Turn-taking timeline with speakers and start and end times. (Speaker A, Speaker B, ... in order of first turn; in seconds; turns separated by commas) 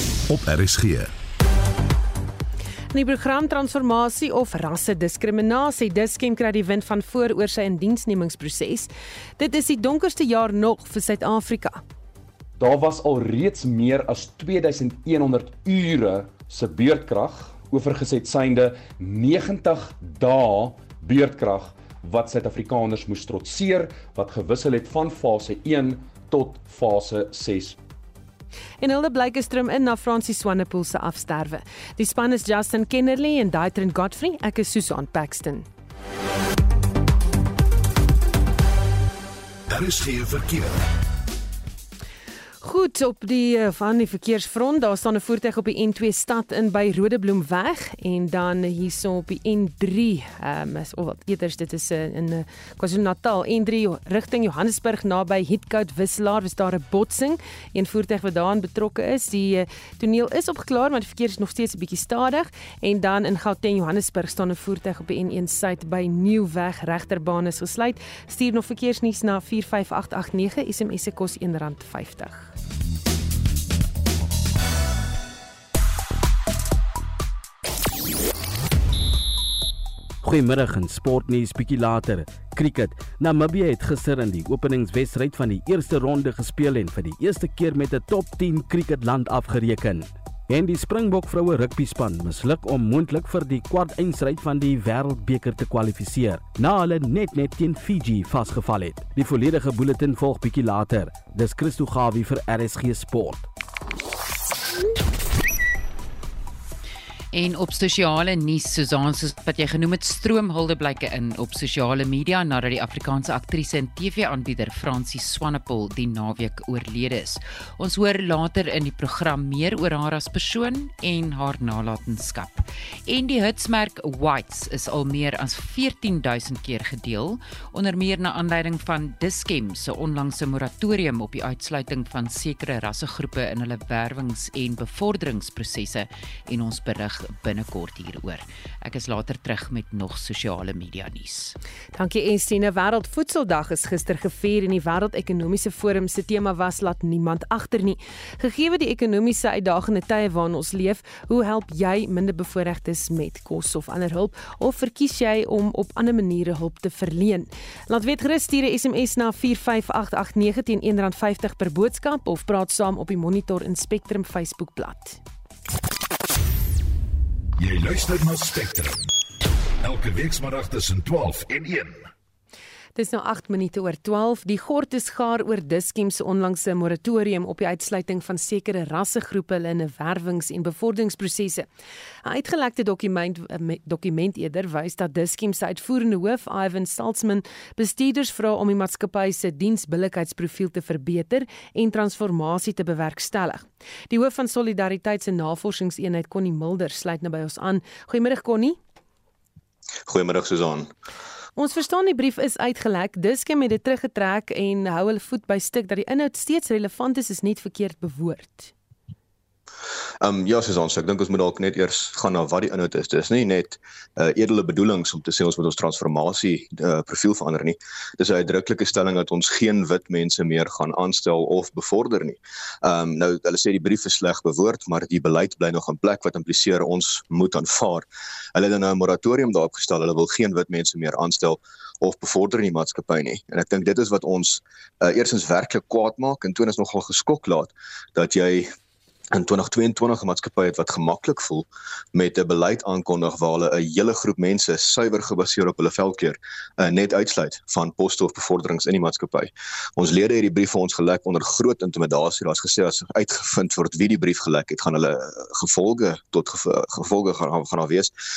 Speaker A: 0.3-1.1, Speaker B: 2.9-11.8, Speaker C: 12.6-27.8, Speaker B: 28.8-35.7, Speaker A: 39.7-40.8, Speaker B: 42.6-72.5, Speaker D: 80.2-103.5, Speaker E: 107.3-141.6, Speaker B: 141.9-165.2, Speaker A: 167.6-169.0, Speaker A: 169.8-172.1, Speaker B: 173.0-181.7, Speaker B: 182.2-198.8, Speaker F: 200.1-200.9, Speaker B: 201.6-208.7, Speaker F: 210.2-238.7, Speaker F: 239.3-258.1